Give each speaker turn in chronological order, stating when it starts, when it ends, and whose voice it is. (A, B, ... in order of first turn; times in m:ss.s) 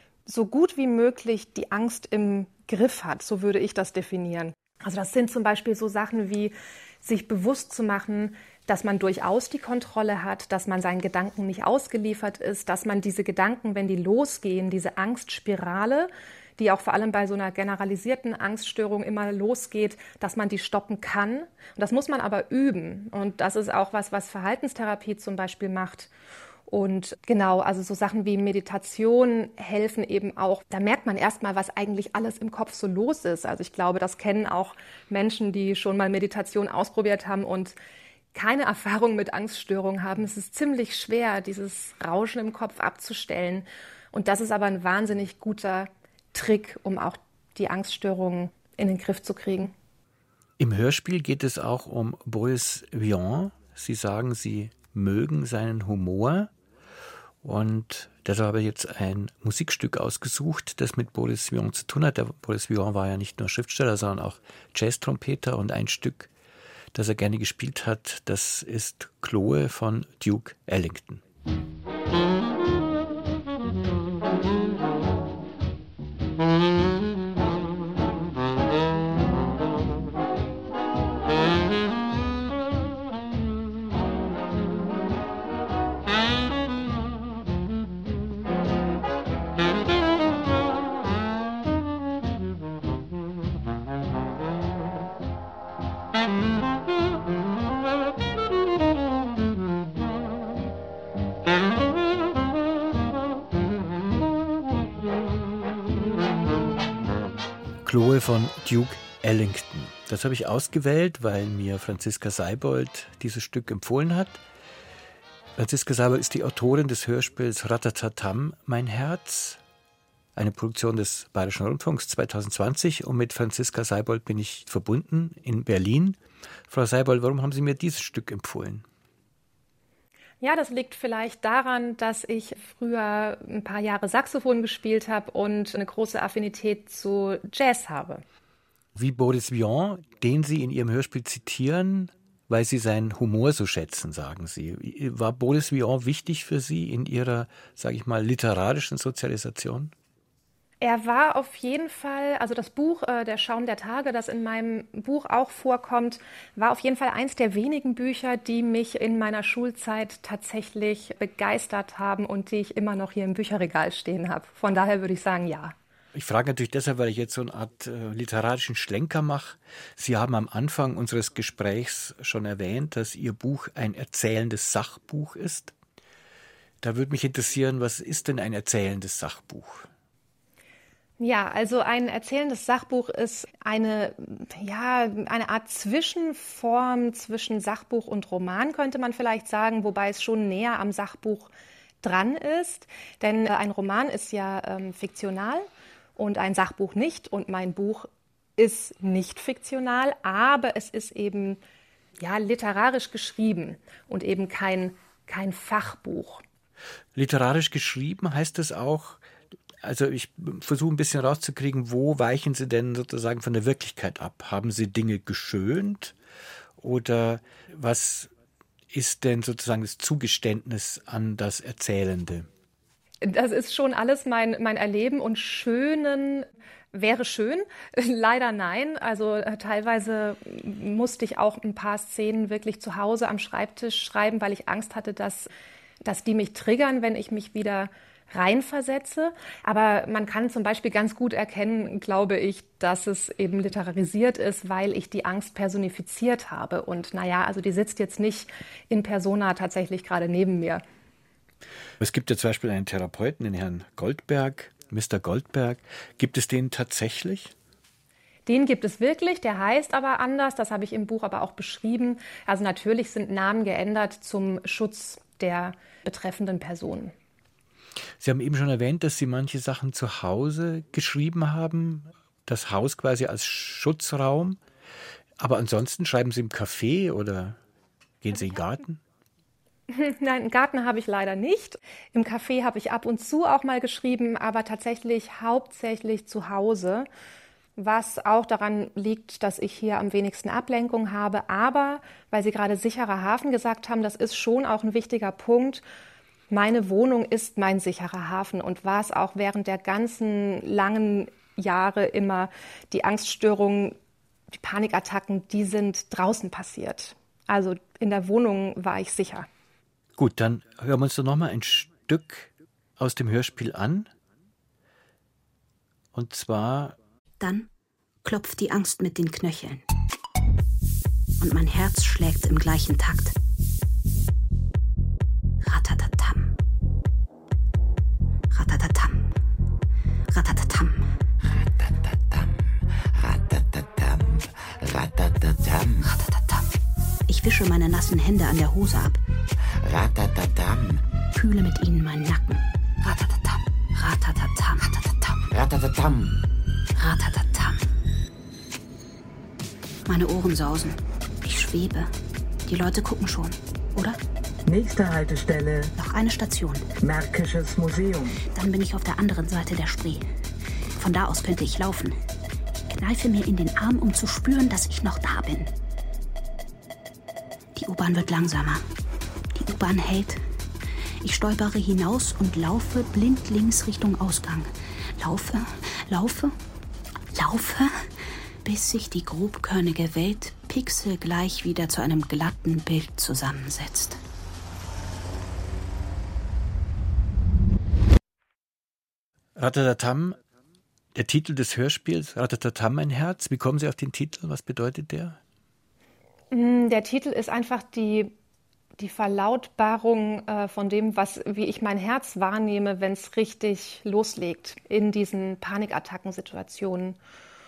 0:00.3-0:26.1 A
0:26.7-0:37.8 A
0:38.3-0:49.7 A
0:50.6-0:56.5 B
0:57.4-1:06.3 B
1:06.9-1:11.2 B
1:47.8-1:54.4 B
1:55.6-1:59.6 B
2:00.4-2:08.8 B
2:10.4-2:18.2 A
2:18.9-2:29.9 B
2:30.8-2:45.7 A
2:46.1-2:55.7 B
2:56.8-2:59.9 B
3:01.2-3:11.5 A
3:12.0-3:15.6 A
3:16.2-3:21.6 A
3:22.2-3:26.4 A
3:27.1-3:29.2 B
3:29.8-3:36.1 B
3:36.8-3:38.3 B
3:38.9-3:42.5 B
3:43.2-3:55.5 A
3:56.0-4:10.8 A
4:12.0-4:17.5 B
4:18.5-4:27.1 A
4:28.2-4:34.6 B
4:35.4-4:37.6 B
4:38.2-4:39.0 B
4:39.9-4:47.1 A
4:47.8-4:55.8 A
4:56.5-5:04.0 A
5:04.5-5:09.5 A
5:10.2-5:14.1 B
5:16.1-5:17.0 B
5:17.4-5:17.7 C
5:18.2-5:19.8 C
5:21.4-5:23.3 C
5:25.6-5:26.5 C
5:28.5-5:29.3 C
5:30.3-5:31.1 C
5:31.4-5:36.1 D
5:36.0-5:36.7 C
5:37.3-5:39.2 C
5:39.6-5:41.0 D
5:41.3-5:45.4 C
5:45.5-5:46.4 D
5:47.0-5:47.8 C
5:50.1-5:52.1 C
5:52.6-5:54.2 C
5:54.6-5:55.9 E
5:56.0-5:56.8 C
5:57.0-5:58.4 E
5:58.4-6:00.2 C
6:01.0-6:02.2 C
6:02.9-6:05.7 C
6:07.8-6:08.8 C
6:09.5-6:10.4 C
6:11.2-6:16.5 C
6:17.3-6:24.2 C
6:29.6-6:30.4 B
6:31.1-6:35.4 B
6:36.5-6:38.3 A
6:39.0-6:47.2 A